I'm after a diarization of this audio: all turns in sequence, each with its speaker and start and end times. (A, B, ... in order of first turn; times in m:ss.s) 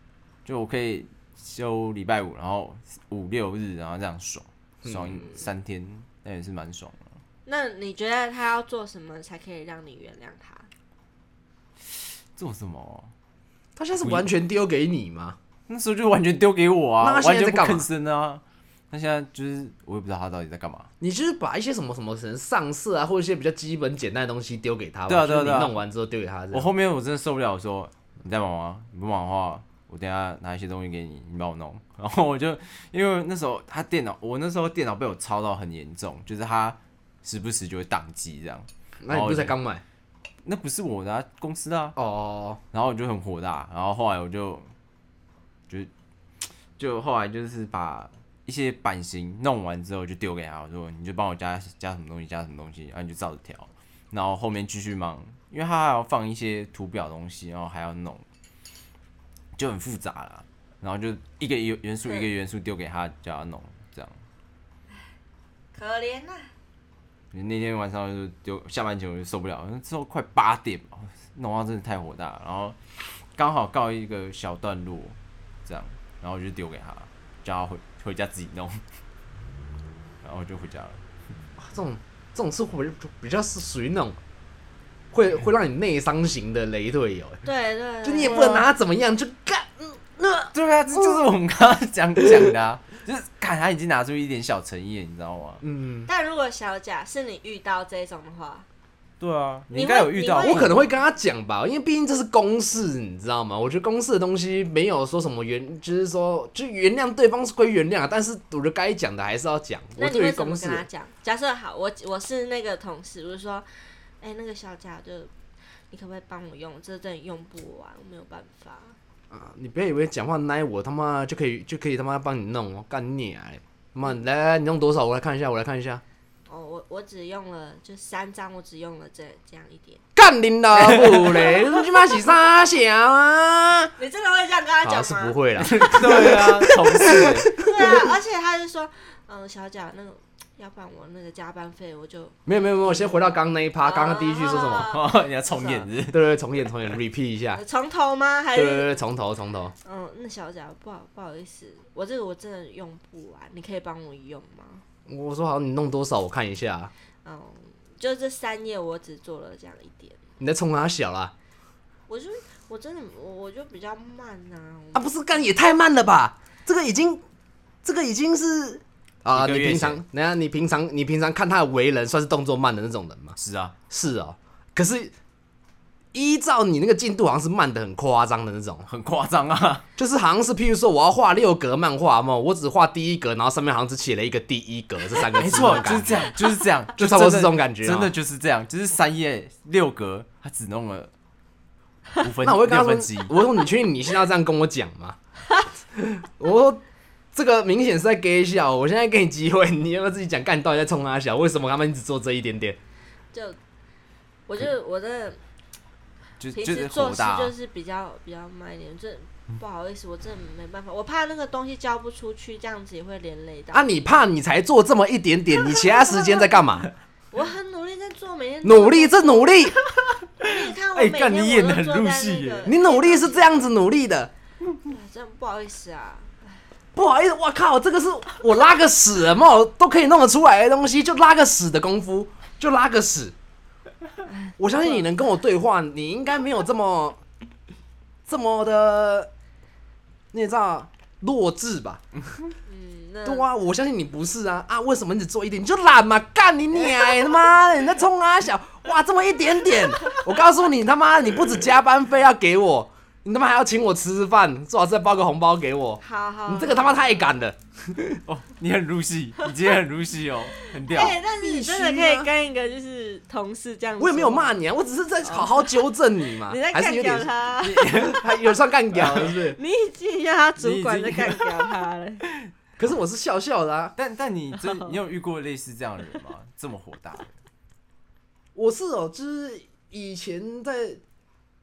0:00.4-0:07.2 A
0:04.8-0:05.4 B
0:07.5-0:10.7 C
0:11.9-0:13.1 A
0:13.8-0:15.4 B
0:14.0-0:14.3 A
0:15.7-0:20.9 A
0:17.0-0:17.9 B
0:21.0-0:26.7 B
0:25.1-0:25.8 A
0:26.5-0:39.6 A
0:39.0-0:39.8 B
0:40.4-0:42.0 A
0:42.0-0:42.6 B
0:42.7-0:44.7 A
0:46.4-0:58.2 A
0:59.6-1:04.2 A
1:05.7-1:06.5 C
1:07.3-1:18.8 A
1:20.2-1:21.0 A
1:21.6-1:24.2 B
1:25.1-1:27.4 B
1:27.4-1:28.7 C
1:28.0-1:31.2 B
1:30.5-1:35.6 A
1:32.2-1:32.5 B
1:35.6-1:36.1 B
1:36.1-1:38.7 C
1:39.2-1:40.9 A
1:39.7-1:40.7 C
1:40.4-1:50.9 B
1:50.0-1:53.7 C
1:54.2-1:55.3 C
1:55.9-1:59.0 C
1:59.3-2:06.0 B
2:06.5-2:10.0 C
2:10.2-2:14.0 B
2:10.8-2:11.2 A
2:11.4-2:11.8 C
2:14.0-2:15.9 C
2:14.8-2:18.0 B
2:15.6-2:17.6 A
2:17.5-2:22.4 C
2:22.5-2:24.9 B
2:23.8-2:25.9 C
2:24.8-2:26.3 A
2:26.1-2:27.6 B
2:27.5-2:29.0 C
2:28.5-2:29.7 B
2:29.8-2:34.8 C
2:35.1-2:36.9 B
2:37.2-2:40.2 C
2:40.4-2:41.3 B
2:42.1-2:45.1 C
2:44.9-2:47.2 B
2:47.8-2:53.4 B
2:49.3-2:50.0 A
2:53.4-2:53.8 A
2:53.9-2:55.1 B
2:56.1-2:58.9 B
2:58.9-2:59.9 A
3:00.0-3:06.3 B
3:05.3-3:11.1 A
3:07.0-3:08.1 B
3:12.2-3:13.3 A
3:12.4-3:15.2 B
3:16.0-3:16.8 B
3:17.3-3:22.8 B
3:23.3-3:23.6 C
3:24.5-3:25.4 C
3:26.4-3:27.5 A
3:26.6-3:33.9 C
3:33.7-3:36.9 B
3:35.6-3:36.6 C
3:37.3-3:39.6 C
3:38.6-3:39.8 B
3:40.4-3:43.6 C
3:40.4-3:42.7 A
3:42.7-3:44.3 B
3:44.9-3:46.3 C
3:47.0-3:53.4 B
3:54.2-3:55.1 C
3:54.6-3:57.2 B
3:58.3-3:59.3 B
4:00.3-4:02.0 B
4:02.7-4:03.5 C
4:03.2-4:18.2 B
4:16.0-4:17.3 C
4:18.2-4:21.2 A
4:20.8-4:24.6 C
4:21.1-4:22.3 B
4:24.0-4:29.6 B
4:25.2-4:25.8 C
4:26.5-4:28.2 C
4:27.6-4:28.2 A
4:29.6-4:32.2 C
4:30.6-4:31.8 A
4:32.8-4:34.0 B
4:34.0-4:37.3 A
4:34.6-4:34.9 C
4:38.6-4:41.0 B